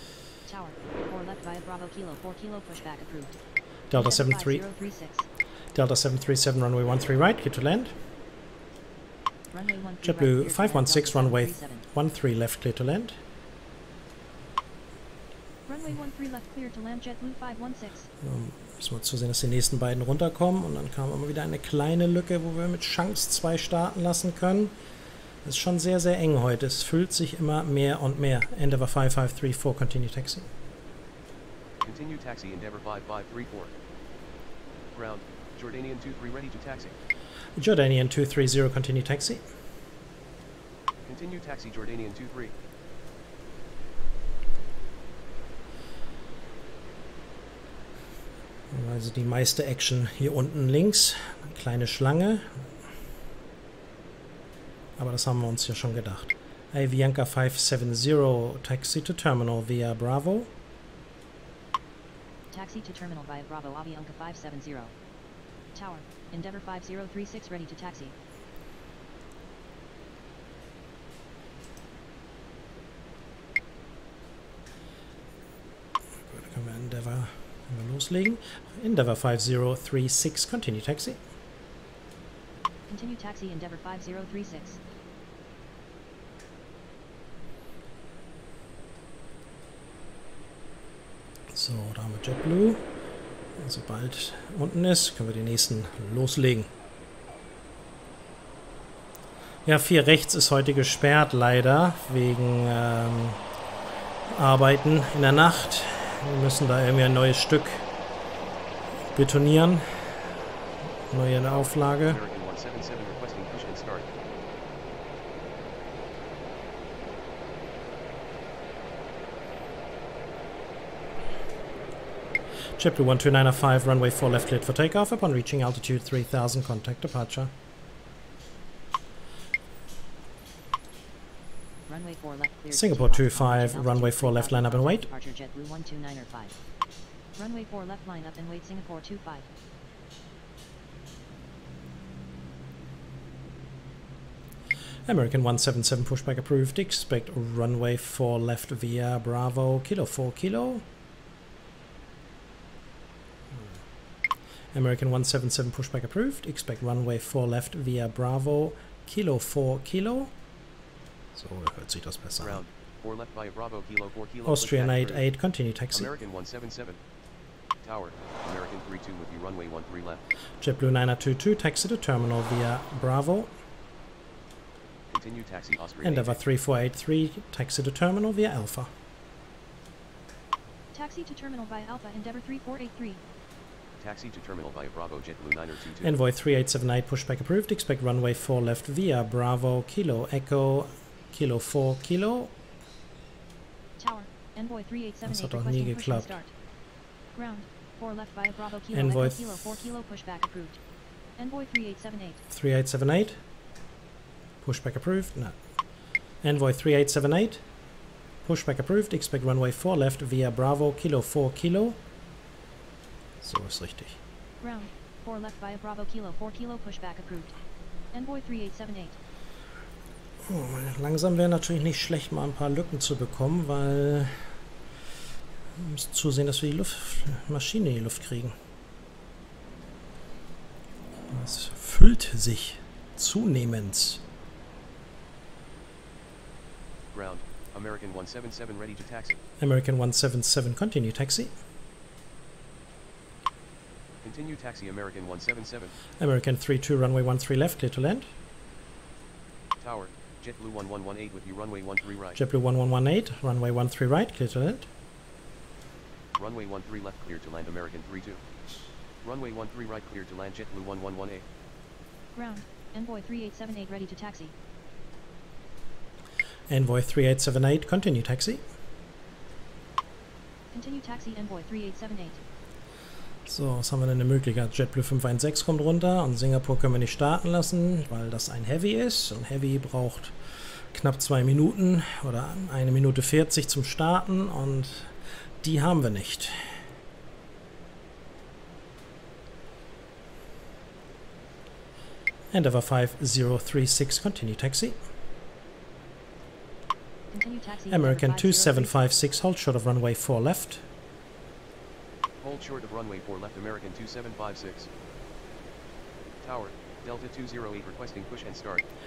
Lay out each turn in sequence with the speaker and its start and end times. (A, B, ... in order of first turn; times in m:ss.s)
0:00.4-0:03.4 A
0:03.9-0:04.6 B
0:03.9-0:05.3 A
0:05.7-0:07.9 B
0:09.5-0:11.8 A
0:10.0-0:13.2 B
0:15.6-0:18.1 A
0:18.2-0:24.7 B
0:25.4-0:30.5 B
0:31.8-0:33.7 C
0:34.9-0:36.9 C
0:37.6-0:39.4 B
0:41.0-0:42.5 C
0:48.7-0:52.6 B
0:55.0-1:00.5 B
1:02.5-1:04.9 A
1:05.7-1:08.1 A
1:16.3-1:21.2 B
1:22.9-1:24.8 A
1:31.5-1:32.8 B
1:33.6-1:36.7 B
1:39.6-1:43.4 B
1:44.3-1:47.8 B
1:49.1-1:50.3 B
1:51.1-1:52.2 B
1:51.4-1:54.1 C
2:02.8-2:07.5 B
2:11.9-2:16.5 A
2:12.7-2:15.1 B
2:17.3-2:19.5 A
2:25.0-2:30.8 B
2:34.7-2:40.3 B
2:41.3-2:42.6 B
2:42.4-2:45.3 C
2:44.4-2:46.1 B
2:45.9-2:47.0 C
2:47.8-2:50.2 C
2:50.6-2:53.5 B
2:55.1-2:56.4 C
2:56.0-2:58.9 B
3:00.9-3:03.2 A
3:04.0-3:06.2 C
3:06.0-3:12.5 B
3:14.0-3:16.5 A
3:15.2-3:16.4 B
3:17.3-3:20.8 A
3:18.9-3:19.6 B
3:21.4-3:22.4 A
3:22.5-3:23.4 B
3:24.6-3:25.6 B
3:26.4-3:27.6 B
3:28.4-3:32.0 B
3:33.4-3:34.2 B
3:34.6-3:37.5 A
3:38.1-3:39.2 A
3:40.4-3:44.5 B
3:45.8-3:48.6 B
3:51.3-3:54.2 B
3:57.1-3:59.4 C
3:59.6-4:01.5 B
4:04.2-4:05.9 C
4:06.2-4:08.3 B
4:09.8-4:12.4 C
4:12.3-4:14.9 B
4:16.4-4:18.4 C
4:19.2-4:21.4 C
4:22.3-4:24.5 A
4:26.7-4:28.6 B
4:30.7-4:32.4 A
4:33.4-4:40.4 B
4:40.9-4:46.6 B
4:52.5-4:55.0 B
4:57.3-4:59.1 A
4:57.9-5:00.8 B
5:02.4-5:04.9 C
5:06.4-5:08.8 C